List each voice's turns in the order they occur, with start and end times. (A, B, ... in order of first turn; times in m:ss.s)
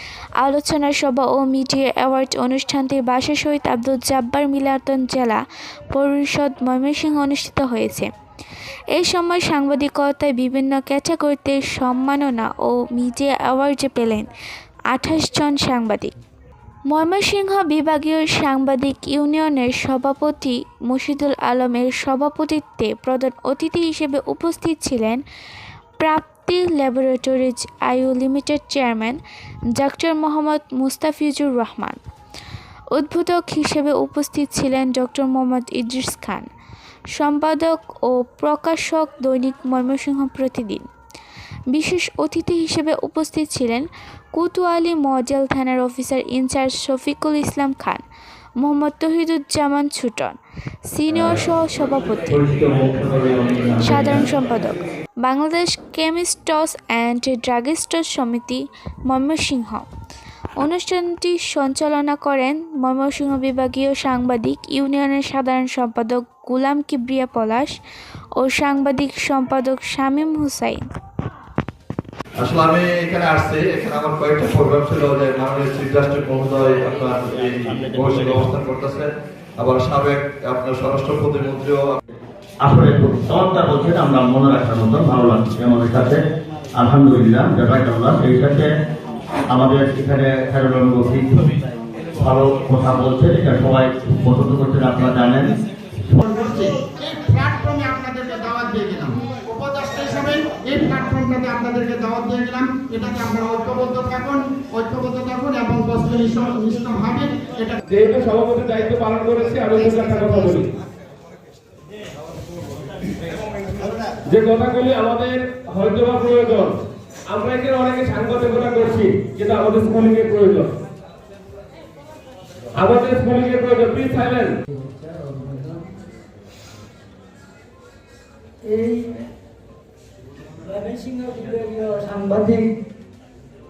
0:00.4-0:08.1 A
0:08.9-0:14.3 A
0:14.9-0:16.1 A
0:16.9-0:25.2 A
0:26.0-0:29.2 A
0:29.8-0:32.0 A
0:32.9-0:36.5 A
0:37.2-0:40.9 A
0:41.7-0:48.0 A
0:48.6-0:50.4 A
0:50.9-0:52.4 A
0:53.8-0:59.9 A
1:00.6-1:07.8 A
1:08.4-1:10.8 A
1:12.4-1:21.9 B
1:22.6-1:26.2 C
1:26.8-1:28.7 C
1:29.5-1:31.6 C
1:32.2-1:35.5 C
1:36.2-1:47.8 D
1:47.9-1:50.6 E
1:49.9-1:50.4 D
1:54.2-2:00.7 E
2:02.8-2:04.6 E
2:04.7-2:05.9 F
2:08.6-2:09.3 F
2:10.6-2:12.7 F